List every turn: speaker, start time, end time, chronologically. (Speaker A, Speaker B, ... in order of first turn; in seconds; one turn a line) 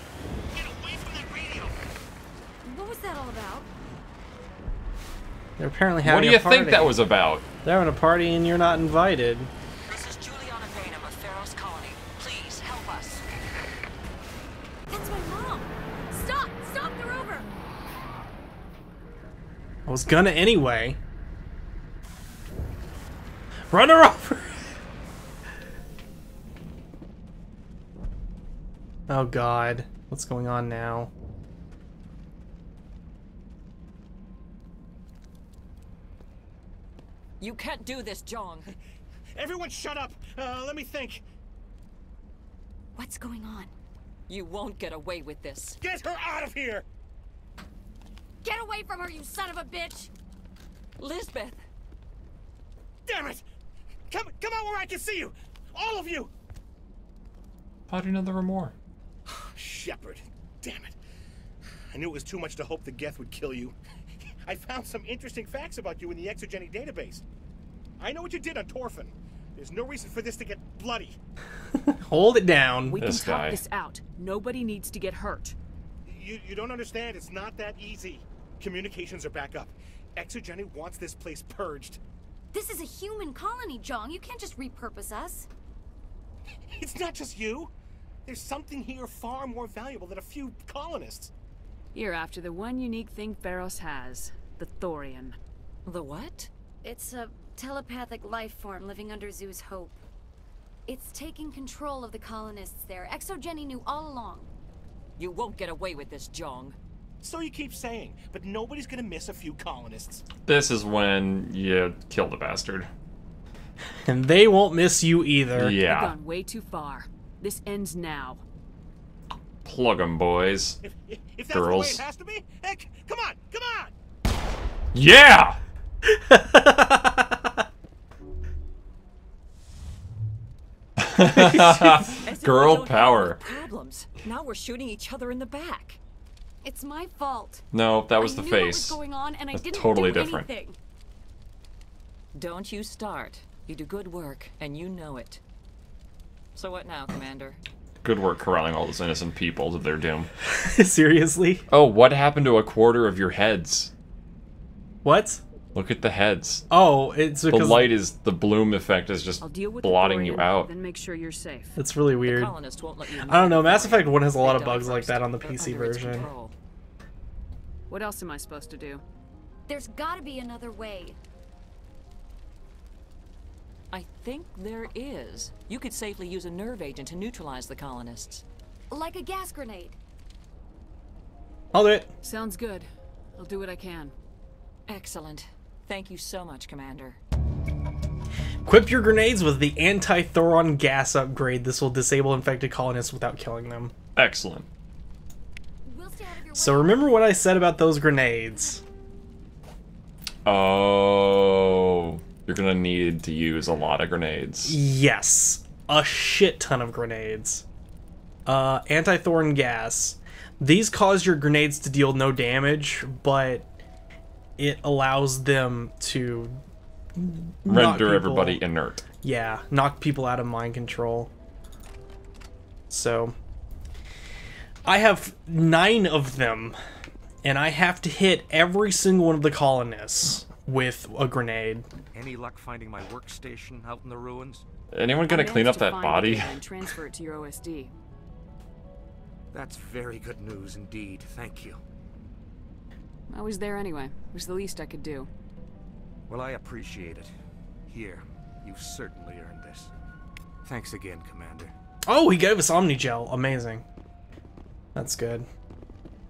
Speaker A: 0.5-1.8
Speaker B: 2.6-3.7
Speaker C: 5.6-7.0
Speaker D: 6.0-7.5
Speaker C: 7.6-9.5
Speaker E: 9.9-13.2
Speaker B: 14.9-17.5
Speaker C: 19.9-21.0
Speaker C: 23.7-24.8
Speaker C: 29.1-31.1
Speaker E: 37.4-38.7
Speaker A: 39.3-41.2
Speaker B: 43.0-43.7
Speaker E: 44.3-45.8
Speaker A: 45.8-46.9
Speaker B: 48.4-50.1
Speaker E: 51.0-51.6
Speaker A: 53.1-53.4
Speaker A: 54.1-56.3
Speaker D: 57.9-58.7
Speaker A: 59.3-61.0
Speaker A: 61.9-63.8
Speaker A: 64.4-67.2
Speaker A: 68.0-71.2
Speaker C: 71.7-73.0
Speaker F: 72.9-75.5
Speaker D: 73.0-73.6
Speaker A: 76.0-82.0
Speaker B: 82.5-85.5
Speaker A: 86.7-87.7
Speaker A: 88.2-91.3
Speaker F: 91.9-95.4
Speaker E: 95.8-96.5
Speaker B: 96.8-100.0
Speaker B: 100.9-104.5
Speaker E: 105.2-106.8
Speaker A: 107.2-110.2
Speaker D: 110.4-112.9
Speaker C: 114.0-115.8
Speaker D: 115.5-116.1
Speaker F: 115.9-118.4
Speaker D: 119.6-120.8
Speaker A: 120.8-123.9
Speaker D: 121.5-122.0
Speaker D: 124.9-125.6
Speaker C: 126.0-127.6
Speaker D: 131.0-133.4
Speaker C: 131.3-132.1
Speaker E: 132.2-136.0
Speaker B: 136.6-137.6
Speaker D: 137.7-139.0
Speaker B: 138.2-140.8
Speaker D: 139.5-140.5
Speaker E: 142.3-145.4
Speaker E: 146.5-147.6
Speaker D: 148.0-150.3
Speaker C: 150.4-151.6
Speaker D: 151.7-153.9
Speaker C: 155.0-155.4
Speaker D: 155.7-156.7
Speaker C: 156.7-157.9
Speaker D: 157.5-160.7
Speaker F: 159.4-161.8
Speaker C: 161.8-162.6
Speaker E: 162.2-166.5
Speaker C: 163.2-166.3
Speaker F: 167.9-169.0
Speaker B: 169.7-171.2
Speaker E: 173.9-178.4
Speaker B: 178.9-180.0
Speaker C: 181.7-182.1
Speaker F: 182.2-184.1
Speaker E: 184.9-187.2
Speaker C: 188.6-193.9
Speaker D: 194.1-194.7
Speaker B: 195.8-197.5
Speaker C: 196.5-198.8
Speaker D: 200.4-204.7
Speaker C: 204.6-207.6
Speaker C: 208.4-213.7
Speaker C: 214.6-216.6
Speaker C: 217.2-218.6
Speaker D: 217.6-219.1
Speaker C: 219.2-221.3
Speaker C: 222.9-223.3
Speaker C: 224.8-226.8
Speaker C: 227.4-231.8
Speaker G: 232.1-234.7
Speaker D: 234.9-236.5
Speaker F: 235.3-237.9
Speaker G: 239.5-241.8
Speaker F: 243.3-245.3
Speaker G: 246.3-247.3
Speaker G: 247.9-249.9
Speaker G: 250.6-251.7
Speaker C: 252.0-253.8
Speaker C: 254.9-255.4